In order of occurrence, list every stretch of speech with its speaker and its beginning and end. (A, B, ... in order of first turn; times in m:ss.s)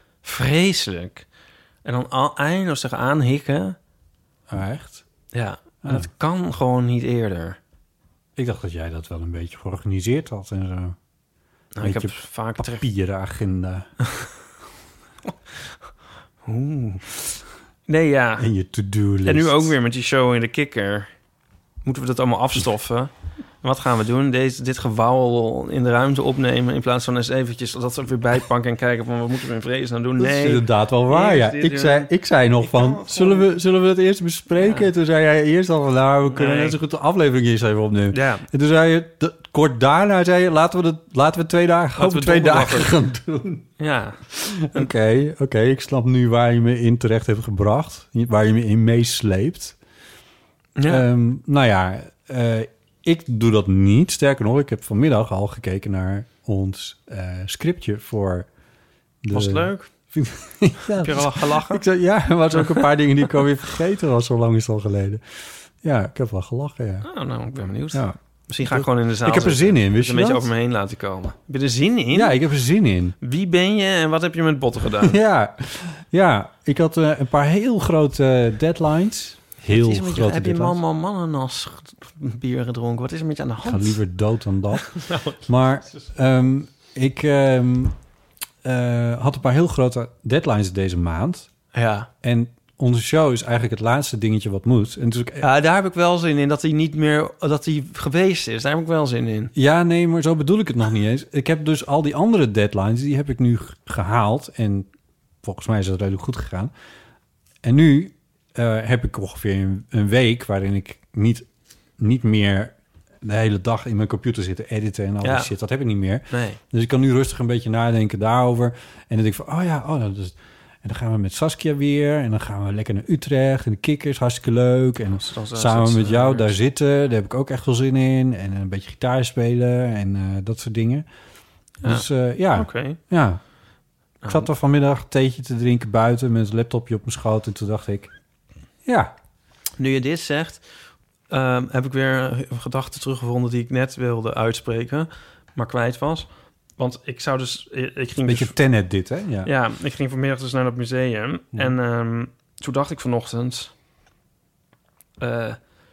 0:00.2-0:01.3 A
0:01.8-0:03.8 A
0:04.5-0:05.0 B
0:05.3-0:07.6 A
0:05.8-0:06.1 B
0:08.4-0:11.0 B
0:11.7-0:12.8 A
0:11.8-0:13.9 B
0:16.4-0:17.1 A
0:17.9-0:18.5 A
0:18.4-0:19.7 B
0:19.2-0:21.1 A
0:21.8-0:33.5 A
0:30.2-0:43.7 B
0:34.5-0:34.9 A
0:36.2-0:36.8 A
0:38.1-0:38.4 A
0:42.0-0:42.9 A
0:43.8-0:44.9 A
0:44.3-0:49.8 B
0:50.8-0:51.0 A
0:50.9-0:58.5 B
0:59.2-1:07.1 B
0:59.3-0:59.9 A
1:01.0-1:01.8 A
1:07.0-1:12.4 A
1:07.9-1:10.5 B
1:12.1-1:13.2 B
1:13.2-1:15.2 A
1:15.0-1:20.8 B
1:19.7-1:24.0 A
1:23.6-1:28.0 B
1:24.9-1:26.0 A
1:28.6-1:31.5 B
1:31.7-1:32.1 A
1:32.2-1:35.5 B
1:35.4-1:39.5 A
1:39.5-1:44.9 B
1:45.4-1:46.7 B
1:47.6-1:51.5 B
1:52.0-2:11.1 B
1:55.2-1:55.5 A
1:56.3-1:56.6 A
2:05.1-2:06.6 A
2:11.8-2:13.0 A
2:11.8-2:13.4 B
2:14.2-2:14.5 A
2:14.2-2:18.1 B
2:18.8-2:19.1 B
2:19.8-2:20.6 A
2:21.3-2:28.6 A
2:28.2-2:29.5 B
2:29.4-2:33.7 A
2:35.2-2:35.6 A